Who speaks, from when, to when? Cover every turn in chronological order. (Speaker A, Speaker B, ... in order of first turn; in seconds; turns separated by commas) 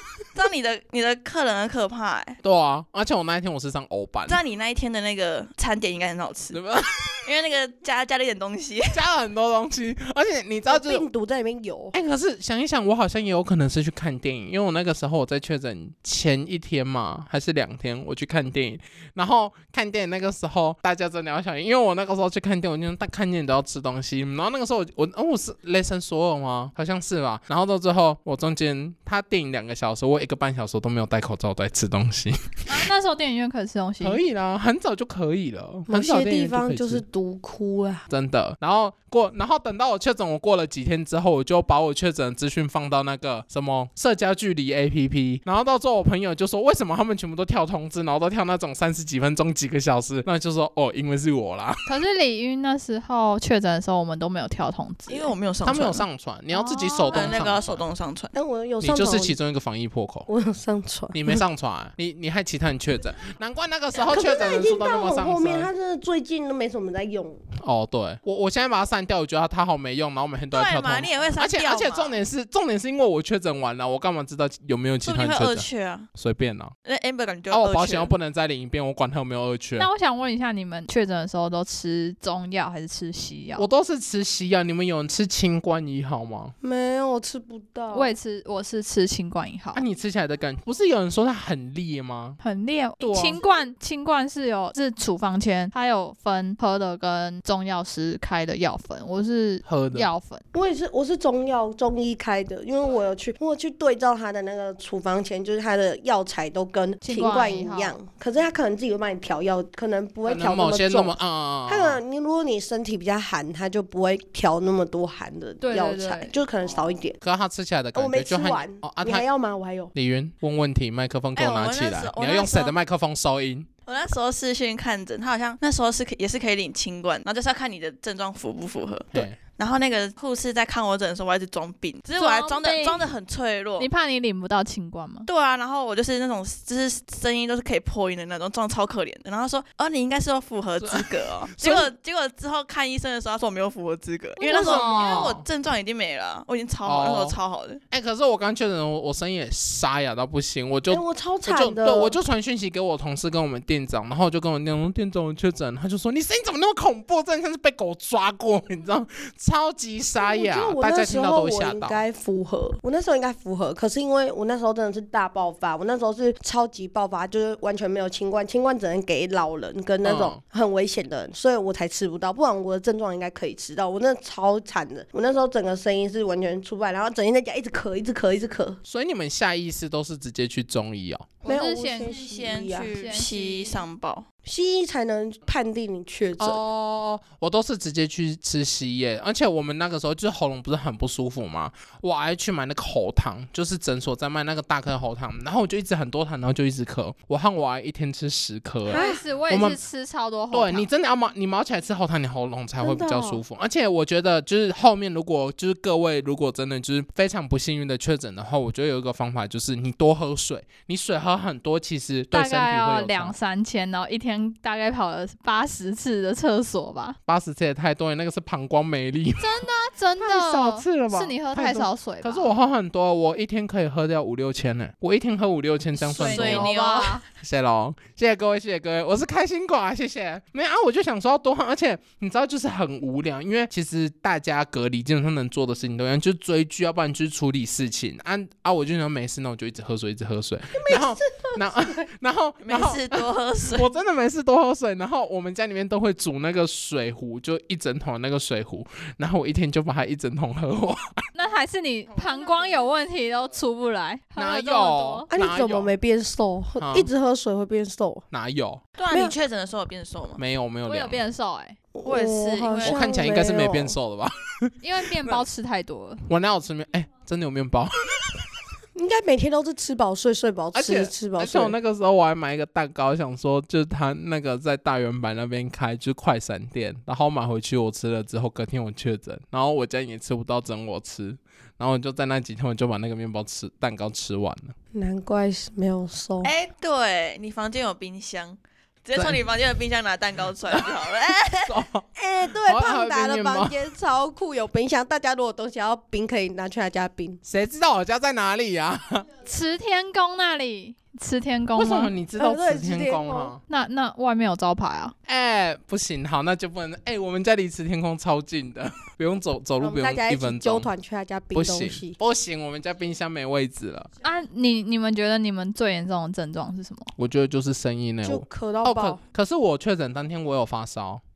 Speaker A: 0.3-2.4, Speaker B: 2.4-4.4, Speaker A: 4.3-6.6, Speaker B: 6.5-7.1, Speaker A: 7.2-9.0, Speaker B: 8.9-11.1, Speaker C: 10.7-11.9, Speaker B: 11.9-32.7, Speaker D: 32.7-34.2, Speaker B: 34.0-37.0, Speaker C: 35.9-38.1, Speaker B: 38.1-51.9, Speaker D: 51.9-55.3, Speaker A: 55.1-56.1, Speaker B: 55.6-57.9, Speaker D: 56.5-57.3, Speaker A: 57.1-58.3, Speaker C: 58.3-59.3, Speaker B: 58.8-60.3, Speaker C: 60.3-61.4, Speaker B: 61.1-65.7, Speaker C: 64.0-67.4, Speaker B: 67.6-76.7, Speaker A: 70.5-72.2, Speaker A: 75.0-76.1, Speaker A: 76.8-78.1, Speaker B: 77.5-79.9, Speaker D: 79.8-83.7, Speaker B: 83.6-86.5, Speaker C: 86.6-88.1, Speaker D: 87.9-89.8, Speaker B: 89.7-92.4, Speaker D: 92.4-100.4, Speaker B: 93.0-93.4, Speaker C: 93.2-93.6, Speaker B: 99.7-100.1, Speaker C: 100.5-111.2, Speaker D: 107.0-108.0, Speaker B: 110.2-112.0, Speaker C: 111.7-117.2, Speaker D: 115.6-116.3, Speaker B: 117.2-119.3, Speaker C: 118.0-119.9, Speaker B: 119.9-123.7, Speaker A: 121.4-122.8, Speaker A: 123.9-133.9, Speaker B: 129.1-129.4, Speaker D: 132.2-133.1, Speaker D: 133.8-135.3, Speaker A: 135.3-147.8, Speaker B: 140.8-141.9, Speaker C: 144.4-144.9, Speaker B: 144.5-145.4, Speaker D: 144.6-145.1, Speaker B: 146.8-147.4, Speaker B: 147.9-162.0, Speaker C: 150.9-152.2, Speaker C: 160.2-178.8, Speaker B: 170.0-170.4, Speaker B: 178.9-181.4, Speaker D: 181.4-182.3, Speaker C: 181.4-182.9, Speaker A: 182.0-184.3, Speaker D: 182.8-183.8, Speaker C: 184.4-186.6, Speaker B: 186.4-199.8, Speaker C: 198.9-199.2, Speaker D: 198.9-200.9, Speaker B: 200.5-213.3, Speaker C: 202.8-203.4, Speaker D: 212.3-217.2, Speaker B: 217.3-219.5, Speaker D: 219.4-222.5, Speaker B: 220.2-226.7, Speaker D: 226.1-227.2, Speaker A: 226.1-227.2, Speaker B: 227.4-251.2, Speaker C: 240.7-242.1, Speaker A: 242.6-243.9, Speaker D: 251.3-255.3, Speaker B: 254.4-255.9, Speaker C: 255.3-258.3, Speaker B: 256.8-257.1, Speaker B: 258.3-258.8, Speaker A: 259.0-260.4, Speaker B: 260.4-261.2, Speaker D: 260.9-261.8, Speaker C: 261.9-263.9, Speaker A: 262.1-263.0, Speaker B: 262.8-265.4, Speaker D: 264.8-266.2, Speaker B: 266.3-268.5, Speaker C: 268.9-271.8, Speaker B: 270.7-284.8, Speaker C: 284.9-286.5, Speaker A: 286.4-291.8, Speaker B: 289.1-289.4, Speaker B: 291.6-293.8, Speaker C: 292.2-297.4, Speaker B: 297.4-299.3, Speaker D: 299.4-302.1, Speaker B: 301.8-303.6, Speaker C: 302.4-303.5, Speaker D: 303.7-305.1, Speaker B: 305.3-310.9, Speaker C: 309.8-312.2, Speaker B: 311.5-314.1, Speaker D: 314.2-317.1, Speaker B: 317.2-321.2, Speaker C: 318.2-319.2